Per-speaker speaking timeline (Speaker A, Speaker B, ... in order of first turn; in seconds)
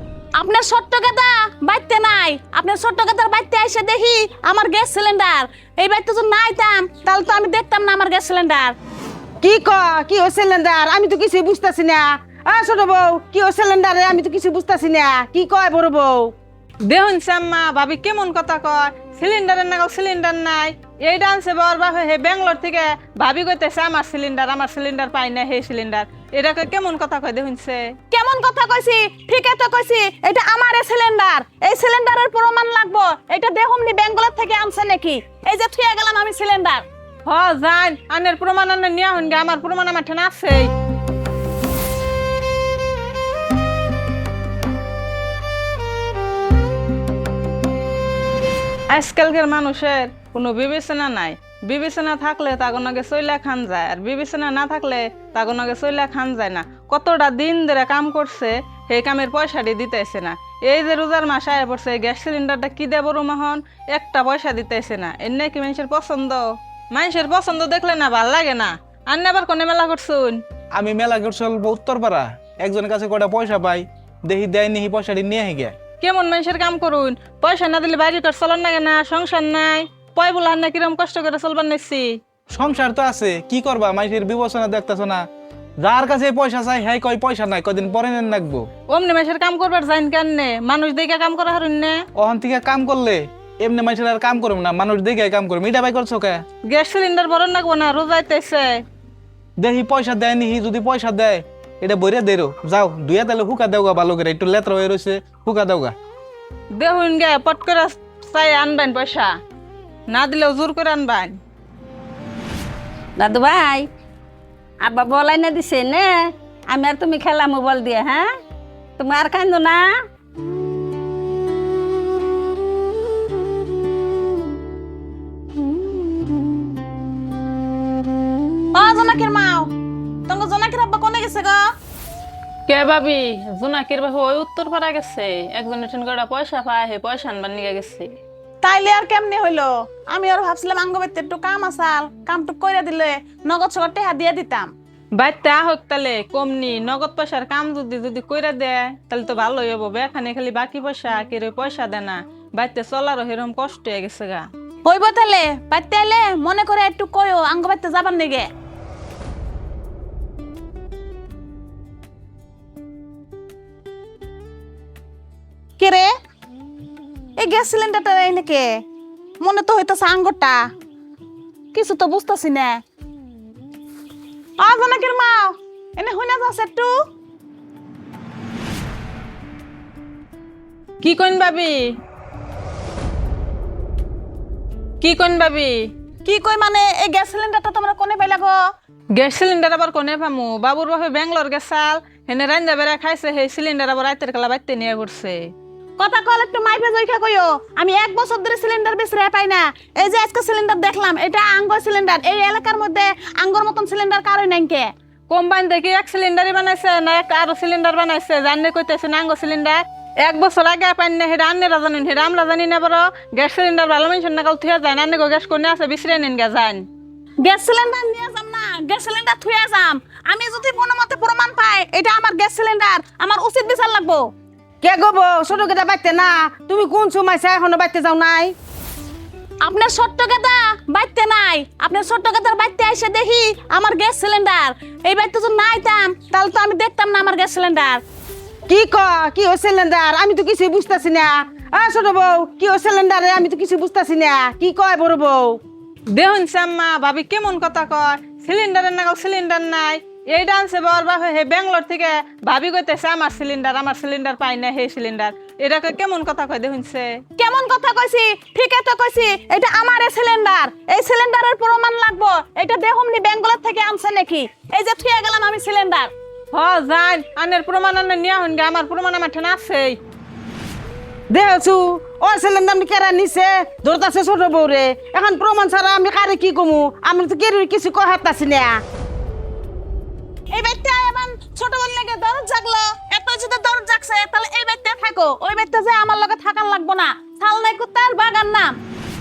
Speaker A: 0.4-8.8, 28.1-36.8, 128.7-129.7, 130.3-131.7, 138.6-144.7, 154.8-158.5, 165.8-166.1, 167.4-168.8, 169.4-170.7, 171.7-172.8, 174.6-176.9, 186.2-188.5, 196.0-204.9, 217.4-224.3, 229.6-238.0, 257.4-266.1, 280.5-288.8
Speaker B: 9.4-16.3, 224.8-228.5, 238.7-245.6, 271.3-278.8
Speaker C: 16.8-27.9, 37.3-40.7, 48.9-70.4, 76.0-82.2, 88.9-92.0, 96.7-98.8, 106.8-109.3, 110.1-111.4, 132.7-138.1, 145.2-154.5, 181.0-182.0, 185.0-185.9, 189.1-195.5, 205.3-216.9, 246.1-257.2, 266.5-270.0
Speaker D: 70.7-75.8, 82.5-85.2, 85.8-88.7, 92.2-96.4, 99.6-105.9
Speaker E: 113.2-113.9, 114.8-118.3, 119.0-120.0